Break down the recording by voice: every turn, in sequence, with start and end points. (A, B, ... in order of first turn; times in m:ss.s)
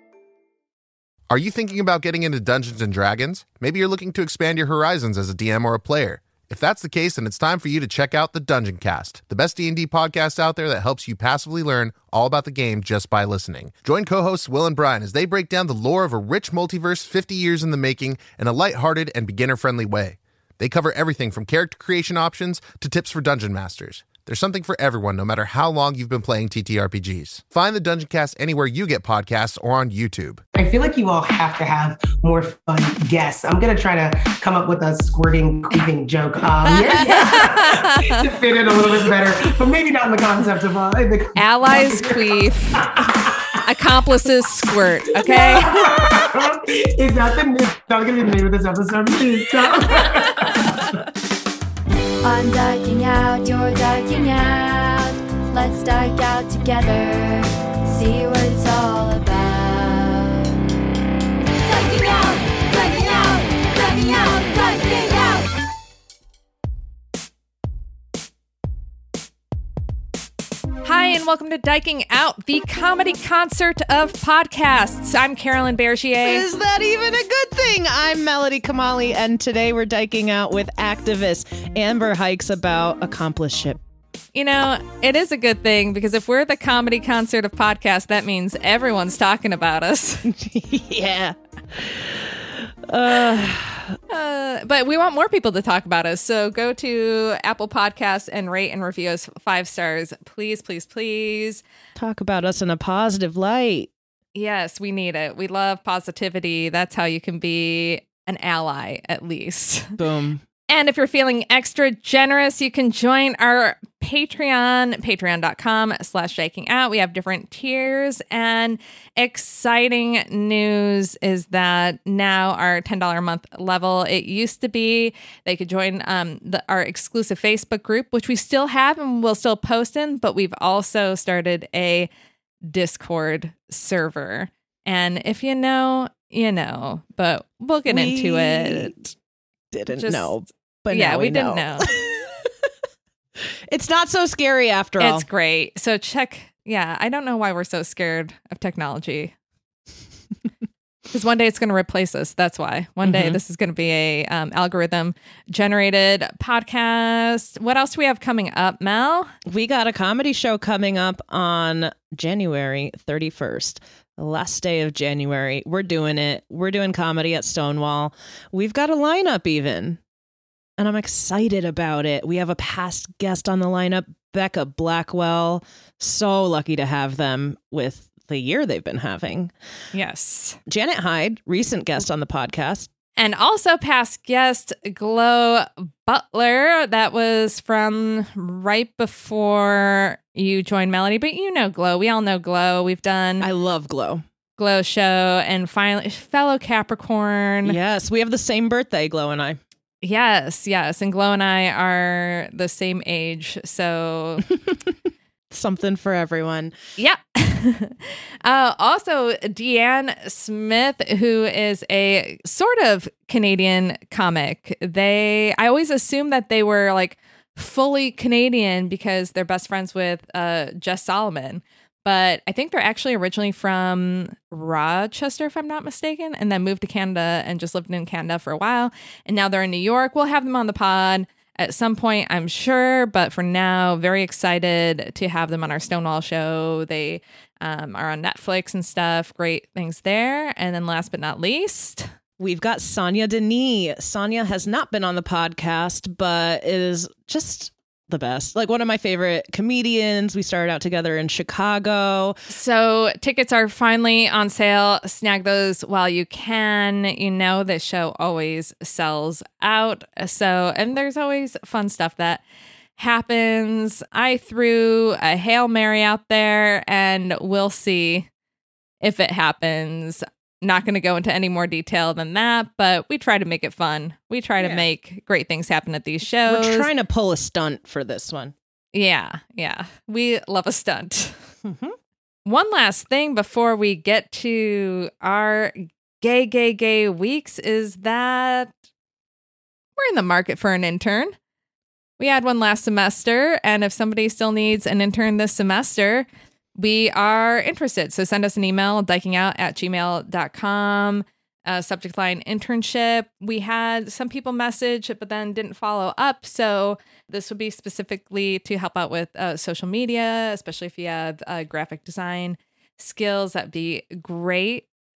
0:01.3-0:30.4 A
0:30.6-0:43.6 B
0:36.9-0:38.2 C
0:41.4-0:42.8 C
0:43.6-0:45.9 C
0:45.2-0:50.8 B
0:52.2-1:00.5 D
1:01.7-1:05.5 D
1:10.8-1:16.4 C
1:16.2-1:23.8 E
1:24.4-1:30.2 C
1:30.3-1:34.0 E
1:34.1-1:41.6 C
1:42.0-1:43.9 E
1:44.4-1:49.9 C
1:50.0-1:50.4 E
1:50.7-2:12.1 C
2:12.7-2:18.9 C
2:17.9-2:19.1 E
2:19.7-2:22.5 E
2:19.9-2:20.3 C
2:20.9-2:21.9 C
2:23.7-2:25.2 E
2:25.0-2:29.3 C
2:31.1-2:39.3 C
2:33.0-2:33.4 E
2:39.5-2:50.0 E
2:50.8-2:59.5 E
2:59.9-3:00.6 C
3:00.7-3:02.9 E
3:03.2-3:13.5 C
3:13.4-3:14.2 E
3:14.6-3:17.8 C
3:17.6-3:19.6 E
3:20.0-3:24.4 C
3:25.5-3:26.7 E
3:27.0-4:02.1 C
4:02.4-4:12.4 E
4:12.5-4:22.4 C
4:23.0-4:28.3 C
4:29.0-4:36.9 C
4:34.6-4:34.9 E
4:36.5-4:38.5 E
4:38.9-4:41.4 C
4:41.6-4:42.0 E
4:42.5-4:48.7 C
4:50.0-4:51.3 C
4:52.2-4:56.3 C
4:56.8-5:14.8 C